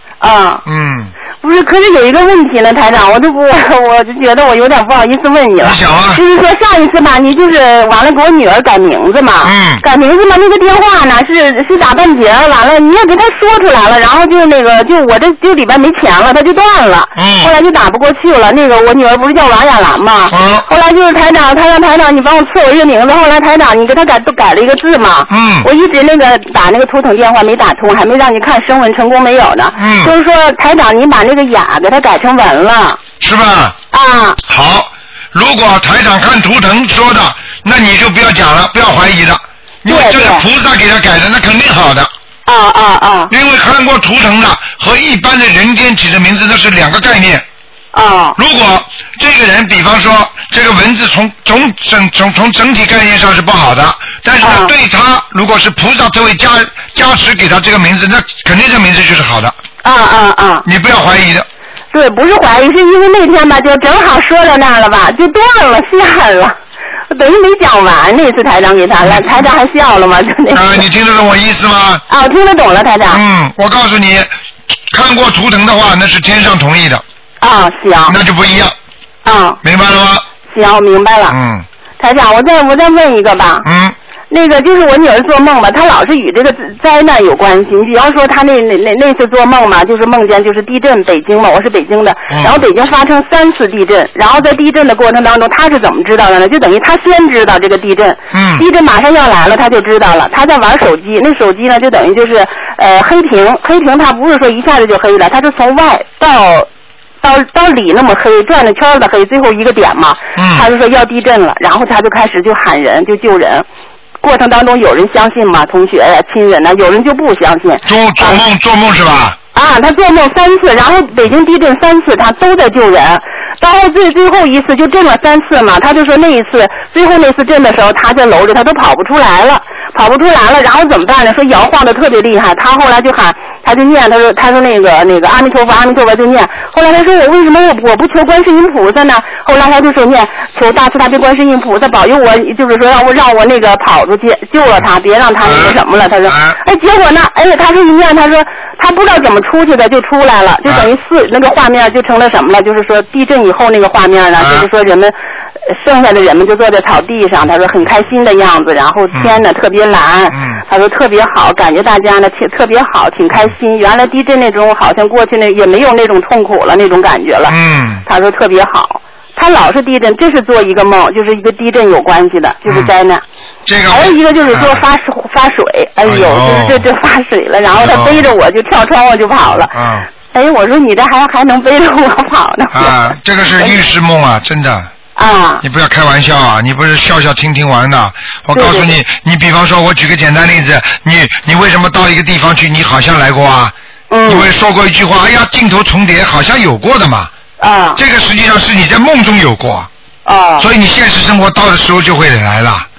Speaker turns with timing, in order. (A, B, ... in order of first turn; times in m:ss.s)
0:00.2-0:00.6 A
0:00.7-0:01.1 B
0:01.4-0:33.0 A
0:05.6-0:06.2 B
0:09.4-0:09.8 B
0:17.2-0:17.5 B
0:20.3-0:20.7 B
0:25.3-0:25.7 B
0:29.8-0:30.1 B
0:33.2-0:33.8 B
0:33.9-0:34.4 A
0:34.5-0:42.1 B
0:39.9-0:40.5 A
0:42.5-0:43.3 A
0:43.3-0:47.4 B
0:47.9-0:48.4 A
0:48.4-0:59.6 B
0:54.4-0:54.7 A
0:59.8-1:00.7 A
1:00.6-1:01.5 B
1:01.9-1:06.6 A
1:07.1-1:10.8 A
1:10.5-1:12.0 B
1:12.1-1:13.2 A
1:13.1-1:14.3 B
1:14.9-1:17.0 B
1:17.4-1:18.2 A
1:18.1-1:18.8 B
1:19.2-1:19.6 A
1:19.6-1:20.3 B
1:20.5-1:21.4 A
1:21.3-1:21.7 B
1:22.0-1:23.7 A
1:23.6-1:24.0 B
1:24.3-1:46.7 A
1:32.3-1:32.6 B
1:38.3-1:38.6 B
1:47.2-1:53.7 A
1:50.4-1:50.7 B
1:54.2-1:58.4 A
1:57.8-1:59.4 B
1:59.5-2:35.2 A
2:25.4-2:26.6 B
2:34.4-2:34.7 B
2:35.7-2:53.2 A
2:39.1-2:39.4 B
2:40.3-2:40.6 B
2:47.5-2:48.0 B
2:52.7-2:52.9 B
2:53.7-2:54.8 B
2:53.9-2:59.8 A
2:56.0-2:56.9 B
2:57.8-2:58.3 B
2:59.7-3:00.1 B
3:00.3-3:03.8 A
3:02.7-3:04.9 B
3:05.2-3:05.6 A
3:05.6-3:13.7 B
3:08.5-3:09.0 A
3:14.1-3:14.5 A
3:14.3-3:17.3 B
3:17.6-3:18.0 A
3:18.0-3:19.9 B
3:20.3-3:20.7 A
3:20.6-3:22.9 B